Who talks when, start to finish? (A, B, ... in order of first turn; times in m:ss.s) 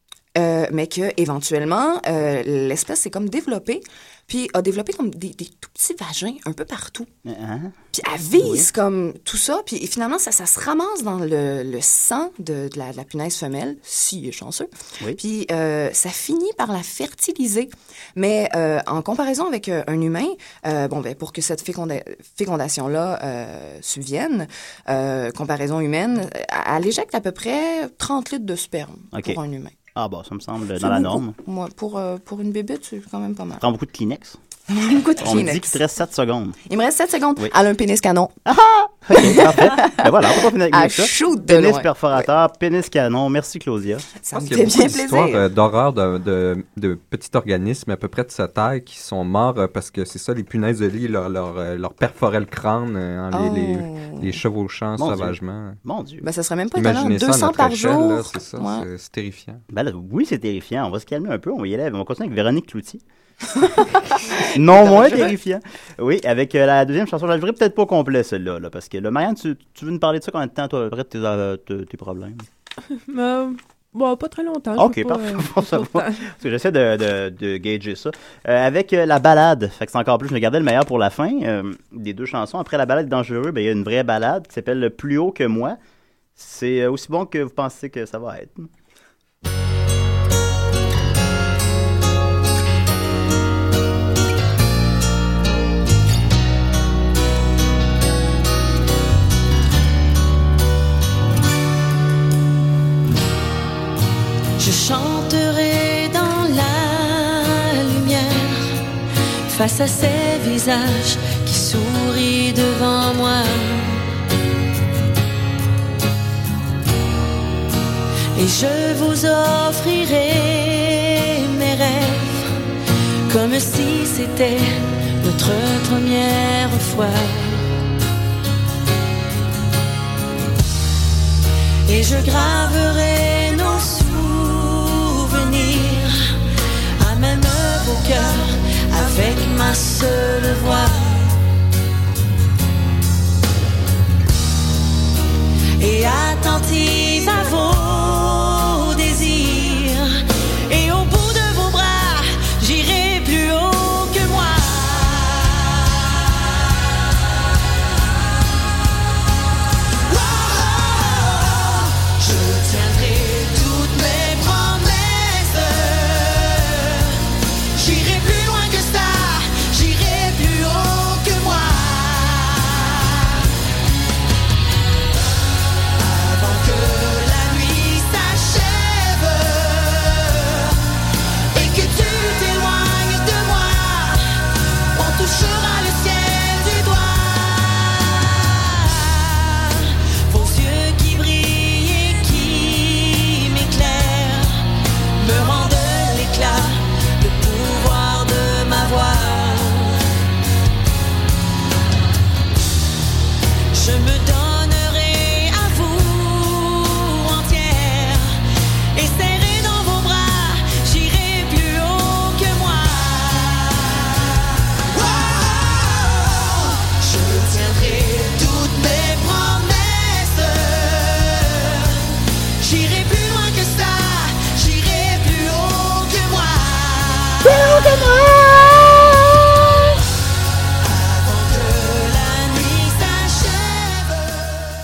0:00.3-0:07.1 A
0:07.2-0:07.7 B
0:07.9-0:29.7 A
0:08.4-0:08.7 B
0:29.1-0:29.4 B
0:29.9-0:31.3 B
0:30.8-0:33.6 A
0:33.6-0:34.4 B
0:34.7-0:35.8 A
0:35.2-0:36.6 B
0:36.6-0:38.3 A
0:38.4-0:44.1 B
0:39.1-0:42.2 A
0:44.2-0:45.4 A
0:44.3-0:55.8 C
0:53.3-0:54.4 A
0:55.0-0:56.2 B
0:56.2-0:58.9 A
0:56.8-0:59.6 C
0:59.7-1:03.0 B
1:03.6-1:05.3 A
1:04.4-1:12.4 B
1:13.0-1:16.2 D
1:14.8-1:25.8 B
1:26.4-1:28.7 B
1:44.6-1:48.8 E
1:49.4-1:54.0 E
1:58.3-2:02.5 E
2:03.3-2:07.7 E
2:11.8-2:16.1 E
2:17.0-2:21.3 E
2:25.8-2:36.0 E
2:40.1-2:47.2 E
2:47.7-2:53.4 E
2:56.0-3:00.8 E
3:01.5-3:04.4 E
3:04.9-3:14.5 E
3:15.2-3:20.0 E
3:23.7-3:28.3 E
3:28.9-3:34.3 E
3:34.9-3:49.3 E
3:47.7-3:48.3 B
3:50.8-3:54.5 E